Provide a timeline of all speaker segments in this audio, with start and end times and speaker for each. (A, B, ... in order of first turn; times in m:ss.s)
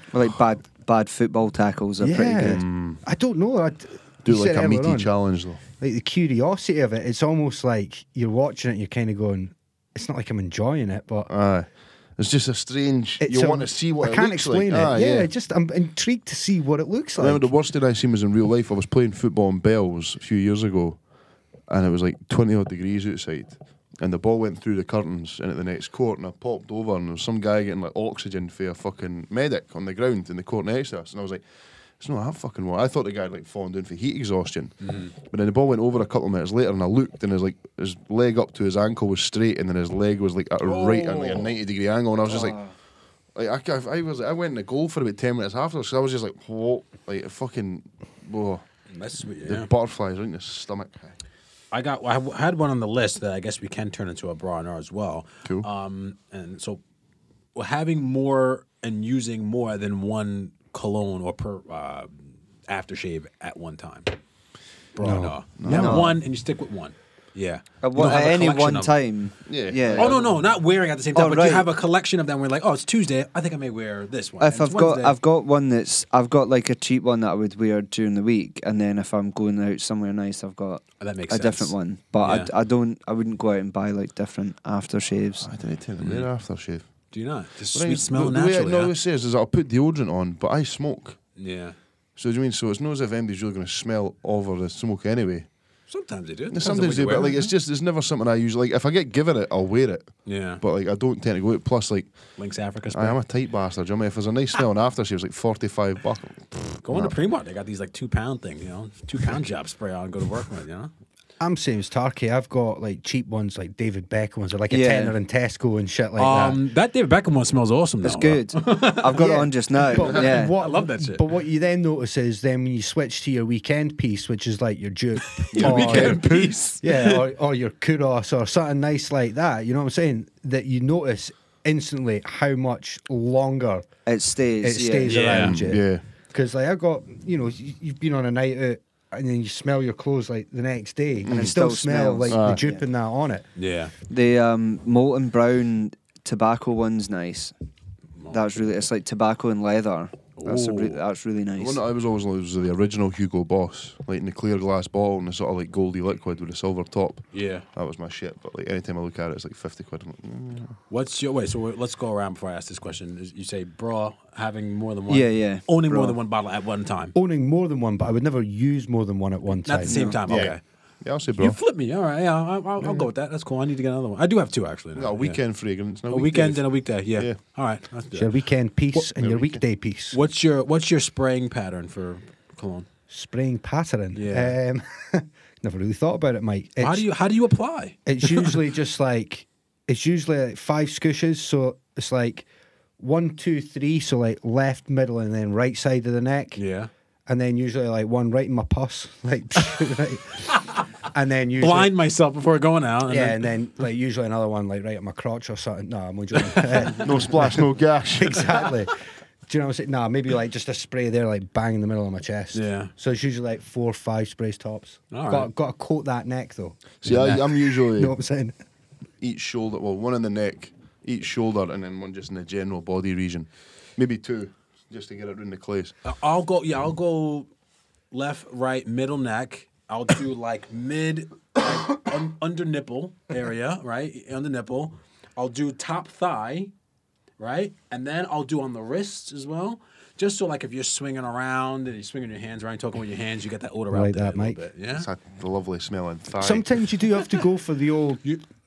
0:00.1-0:02.6 A
0:02.0-0:05.1 B
0:02.4-0:03.0 C
0:04.2-0:05.6 C
0:05.8-0:11.3 B
0:11.3-0:15.3 C
0:13.2-0:17.5 B
0:17.2-0:21.0 C
0:21.7-0:31.4 C
0:32.0-0:42.6 C
0:34.8-0:35.1 D
0:40.6-0:41.6 D
0:42.3-0:42.7 A
0:43.4-0:48.6 C
0:48.9-0:49.7 D
0:49.4-0:51.2 C
0:51.7-0:56.8 D
0:57.6-1:04.1 D
1:05.0-1:09.0 D
1:05.0-1:05.4 B
1:05.6-1:06.2 C
1:05.7-1:06.2 A
1:07.8-1:10.2 A
1:09.5-1:10.4 C
1:09.9-1:15.2 D
1:11.1-1:11.7 A
1:14.4-1:25.5 A
1:21.0-1:22.5 D
1:25.4-1:26.9 C
1:26.0-1:26.3 D
1:27.1-1:28.9 D
1:27.7-1:31.2 C
1:31.4-1:31.8 D
1:32.2-1:35.5 C
1:35.9-1:37.5 D
1:36.5-1:42.1 C
1:40.3-1:40.6 D
1:42.4-1:43.2 D
1:42.9-1:47.2 C
1:46.8-1:50.9 D
1:51.4-1:56.6 B
1:54.7-1:55.2 A
1:56.2-1:59.2 D
1:58.0-2:00.6 A
1:59.2-2:06.3 B
2:00.0-2:01.2 D
2:05.5-2:06.6 C
2:05.5-2:07.3 D
2:06.8-2:13.9 B
2:14.1-2:15.4 A
2:14.6-2:23.4 B
2:15.1-2:15.7 D
2:15.3-2:16.0 C
2:21.2-2:21.6 C
2:21.3-2:22.8 A
2:22.3-2:22.6 C
2:23.6-2:23.9 D
2:24.1-2:27.5 A
2:28.3-2:31.8 A
2:30.4-2:30.8 D
2:30.4-2:31.0 C
2:31.6-2:40.8 C
2:37.3-2:37.7 D
2:40.9-2:47.2 D
2:45.1-2:46.1 A
2:47.2-2:50.1 B
2:49.6-2:50.6 D
2:49.8-2:50.2 A
2:50.3-2:51.6 C
2:51.4-2:55.4 D
2:55.0-2:57.4 C
2:56.1-2:58.3 D
2:58.2-3:00.2 B
2:59.2-2:59.6 C
3:00.1-3:02.9 D
3:03.1-3:07.1 B
3:04.1-3:04.6 D
3:06.8-3:08.6 D
3:08.1-3:12.5 B
3:13.0-3:16.6 B
3:16.6-3:16.9 D
3:17.3-3:20.5 B
3:21.1-3:21.9 B
3:21.6-3:23.5 D
3:23.1-3:27.6 B
3:26.4-3:26.9 D
3:27.0-3:28.5 C
3:28.2-3:29.0 B
3:29.5-3:36.9 B
3:32.5-3:32.9 D
3:35.1-3:35.5 D
3:37.0-3:38.2 C
3:37.0-3:37.4 D
3:37.5-3:38.5 B
3:39.2-3:45.9 C
3:46.0-3:47.5 D
3:48.1-3:56.7 D
3:57.4-4:05.1 D
4:03.9-4:04.6 B
4:04.9-4:06.7 C
4:06.4-4:08.4 B